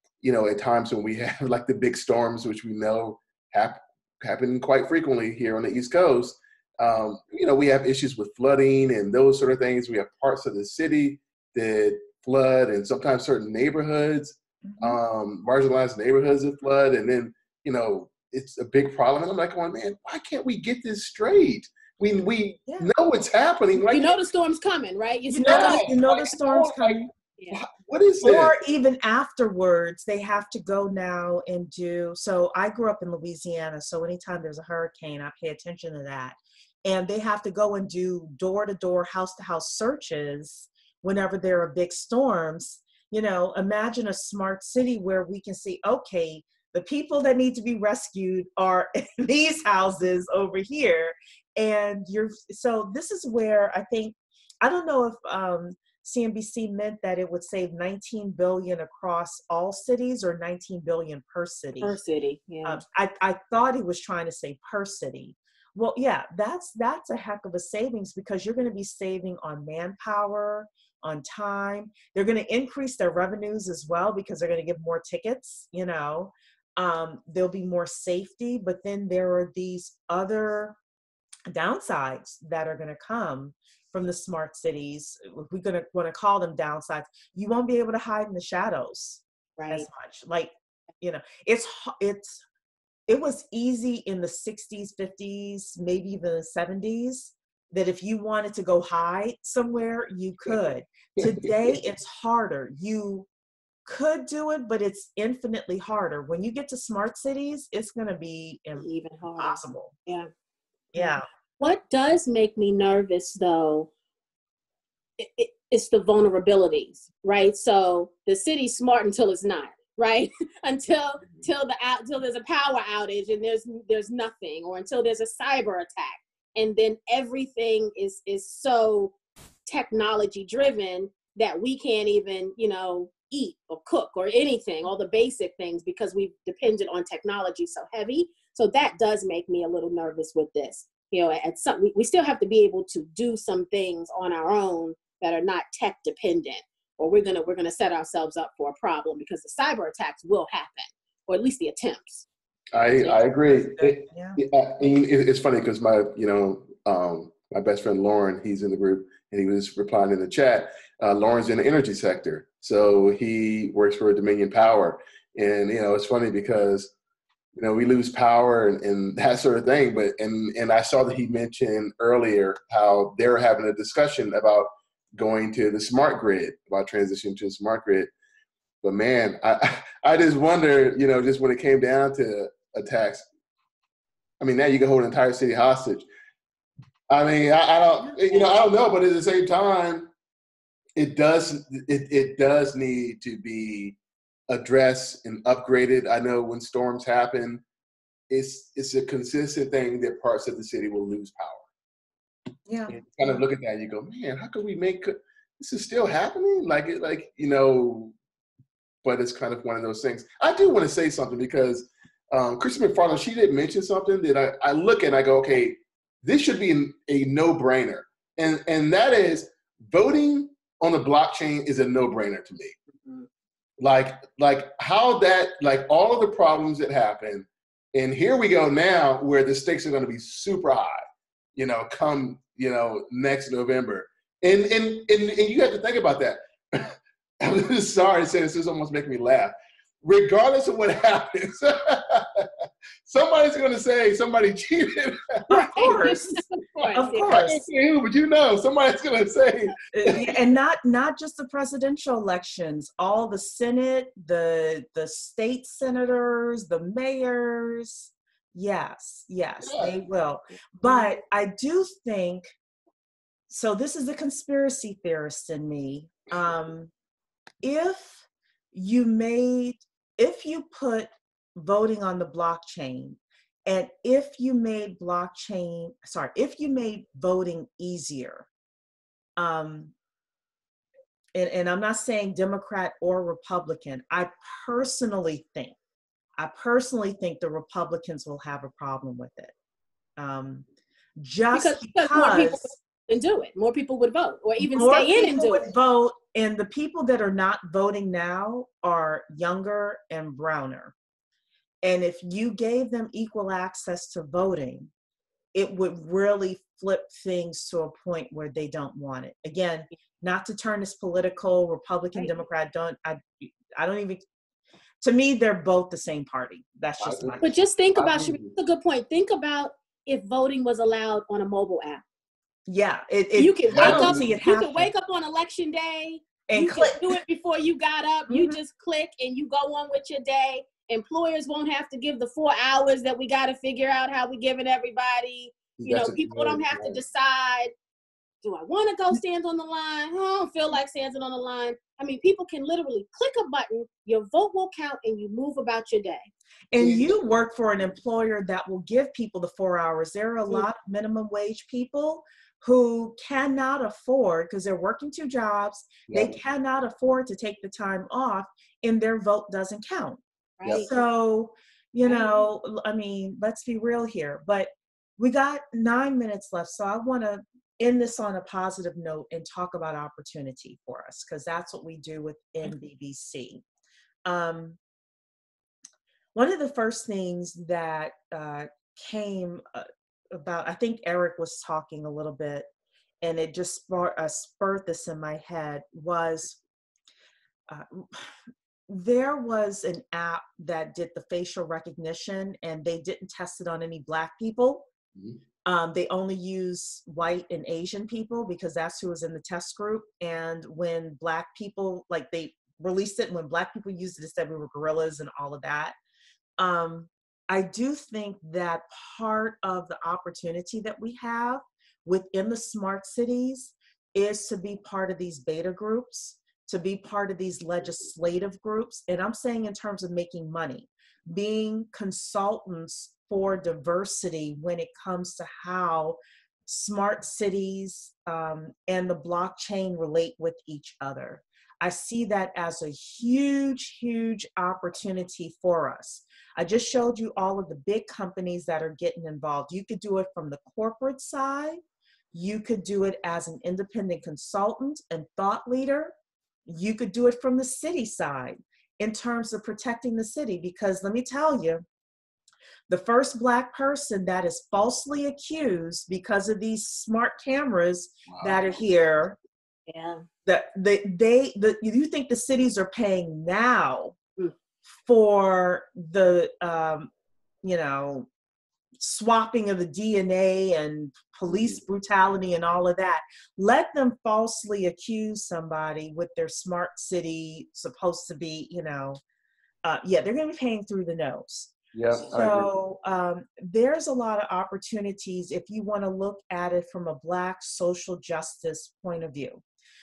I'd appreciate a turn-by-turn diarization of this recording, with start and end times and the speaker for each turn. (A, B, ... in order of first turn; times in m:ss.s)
0:00.2-0:24.2 A
0:14.6-0:15.0 B
0:23.8-0:25.9 C
0:25.3-0:27.1 B
0:25.4-0:28.6 A
0:28.2-1:02.0 B
1:01.8-1:02.8 C
1:02.6-1:20.8 B
1:21.5-1:32.4 B
1:29.6-1:29.9 C
1:33.1-1:43.3 B
1:43.9-1:49.9 B
1:48.8-1:50.3 C
1:50.9-1:51.3 B
1:51.0-1:53.9 C
1:55.2-2:09.2 C
2:09.7-2:32.3 C
2:32.7-2:46.9 A
2:33.2-2:34.4 B
2:47.6-2:58.1 A
2:58.8-3:03.3 A
3:04.4-3:06.1 A
3:07.1-3:10.1 A
3:11.0-3:14.0 A
3:14.5-3:17.6 A
3:18.3-3:21.6 A
3:22.7-3:23.3 B
3:22.9-3:28.2 A
3:29.0-3:42.8 A
3:43.8-3:51.0 A
3:51.6-4:02.5 A
4:03.0-4:06.1 A
4:05.5-4:06.4 B
4:05.5-4:07.6 C
4:06.8-4:10.3 A
4:06.9-4:07.7 B
4:09.9-4:22.5 B
4:19.6-4:20.0 A
4:23.5-4:26.9 B
4:27.6-4:38.5 B
4:39.4-4:39.9 B
4:41.4-4:45.8 B
4:46.4-4:49.5 B
4:50.2-4:50.7 B
4:51.2-4:52.7 B
4:51.5-4:55.6 C
4:54.6-5:00.9 B
5:01.8-5:04.9 B
5:05.5-5:14.2 B
5:15.0-5:17.6 B
5:17.0-5:18.5 A
5:17.4-5:22.0 C
5:22.7-5:24.9 B
5:23.4-5:37.7 C
5:23.7-5:24.3 A
5:26.5-5:27.2 B
5:28.3-5:28.6 B
5:35.8-5:37.0 A
5:38.4-5:46.3 C
5:46.7-6:00.2 B
5:46.8-5:47.1 A
5:56.1-5:56.4 A
6:00.6-6:01.0 C
6:00.7-6:13.6 B
6:02.1-6:02.4 C
6:14.3-6:14.8 B
6:16.3-6:22.7 B
6:23.2-6:26.6 B
6:27.7-6:28.4 B
6:28.9-6:34.9 B
6:35.7-6:46.0 B
6:46.6-7:21.8 B
7:22.3-7:26.1 B
7:26.7-7:31.8 B
7:32.9-7:39.4 B
7:38.3-7:38.6 A
7:39.9-7:40.2 C
7:40.5-7:44.2 B
7:45.0-7:47.1 B
7:47.6-7:48.3 B
7:49.0-7:59.2 B
7:51.5-7:51.8 A
7:59.8-8:09.6 B
8:01.9-8:02.7 A